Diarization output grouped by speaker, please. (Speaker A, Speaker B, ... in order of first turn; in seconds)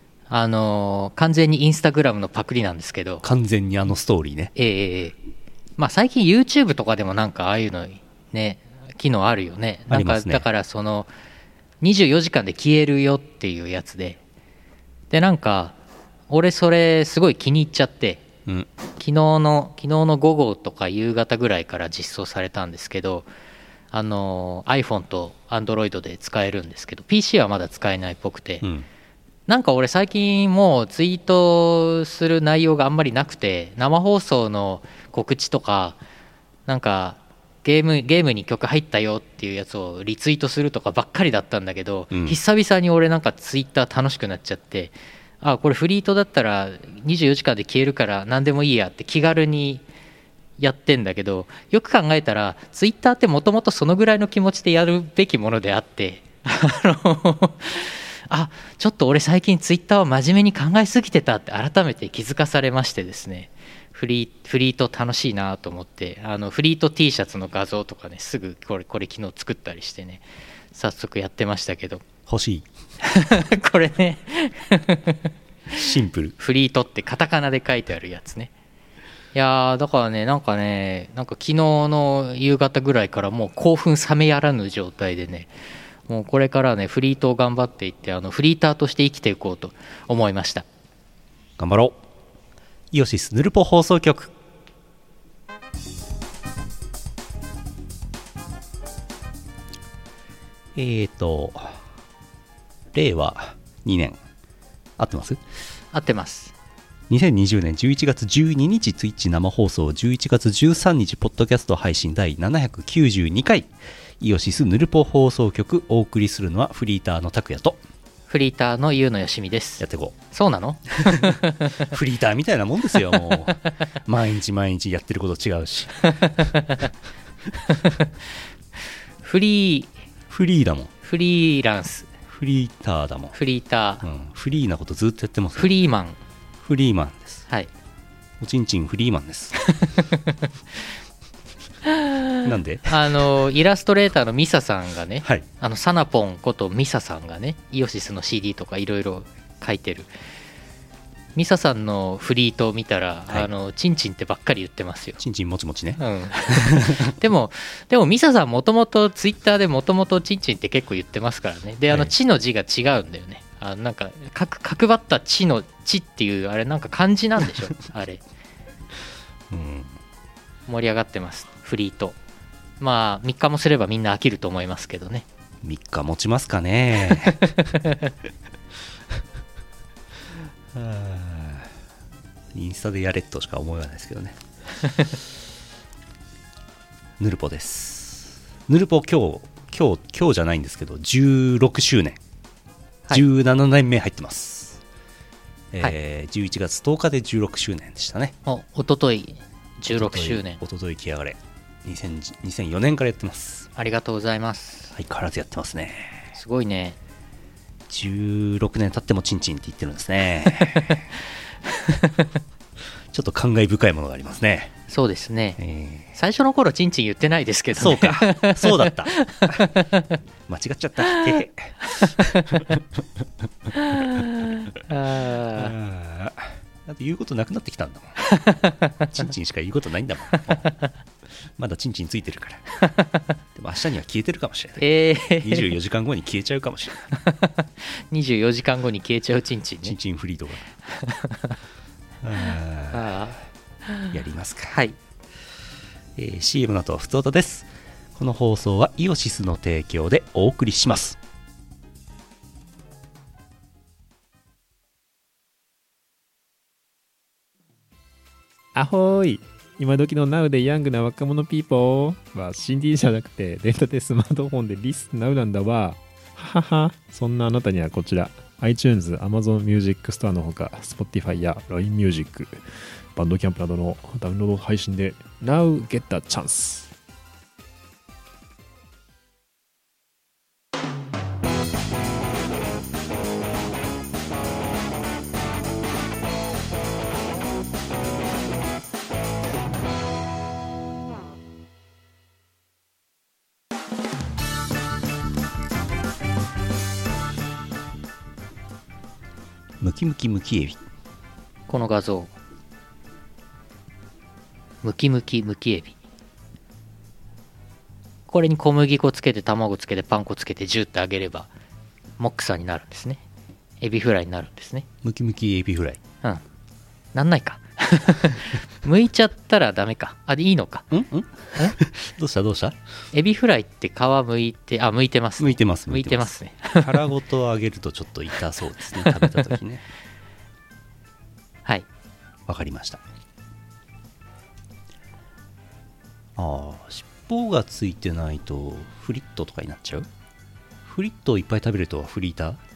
Speaker A: 0.3-3.2, 4.5-5.2, 5.8-11.1, 11.8-14.2, 15.1-15.8, 16.3-18.3, 19.0-23.3, 23.9-28.6, 29.5-36.0, 36.7-49.8, 50.6-72.0, 73.0-78.5, 79.3-85.5, 86.1-90.6, 105.9-106.5, 118.3-121.9, 126.1-126.9, 127.6-128.1, 129.2-129.9, 131.0-132.1, 133.3-134.1, 135.6-136.2, 139.6-140.5, 141.8-150.1, 151.3-155.2, 156.0-168.2, 170.7-172.2, 172.8-175.2, 177.2-178.1, 184.8-185.1, 198.4-200.6, 203.8-204.9, 206.3-207.0, 211.8-212.3, 214.9-215.6, 216.1-220.2, 221.1-221.4, 221.9-222.8, 223.7-225.7, 228.2-229.1, 230.4-230.9, 232.8-233.3, 234.8-235.8, 237.1-239.9, 240.8-241.6, 242.9-244.1, 244.7-244.9, 301.7-302.3, 304.8-305.9, 308.3-311.5, 312.2-313.2, 313.8-314.9, 317.1-320.9, 323.1-327.1, 329.0-329.5
Speaker B: 3.2-4.5, 9.9-10.4, 28.6-28.9, 42.1-42.4, 72.3-72.7, 75.7-76.3, 91.6-92.0, 92.9-94.3, 100.7-101.8, 102.9-104.2, 105.0-105.4, 107.1-117.8, 119.8-120.2, 121.0-126.5, 130.3-130.9, 132.3-133.3, 134.0-135.8, 136.6-137.5, 138.4-139.6, 142.4-143.3, 155.2-157.1, 161.9-162.1, 169.5-170.0, 175.6-177.6, 180.7-181.7, 182.5-184.4, 187.2-192.2, 193.1-194.8, 195.7-198.3, 199.9-203.7, 204.9-206.3, 207.9-211.1, 213.1-214.8, 215.6-216.1, 217.7-219.7, 220.5-223.2, 225.5-228.2, 229.1-230.7, 231.6-232.6, 233.5-237.1, 239.8-240.7, 242.2-243.3, 244.1-244.8, 246.2-251.2, 299.8-300.8, 315.0-316.0, 320.9-322.8, 325.4-329.8, 332.4-333.0, 336.4-340.1, 340.9-342.6
Speaker C: 258.8-272.6, 273.1-276.9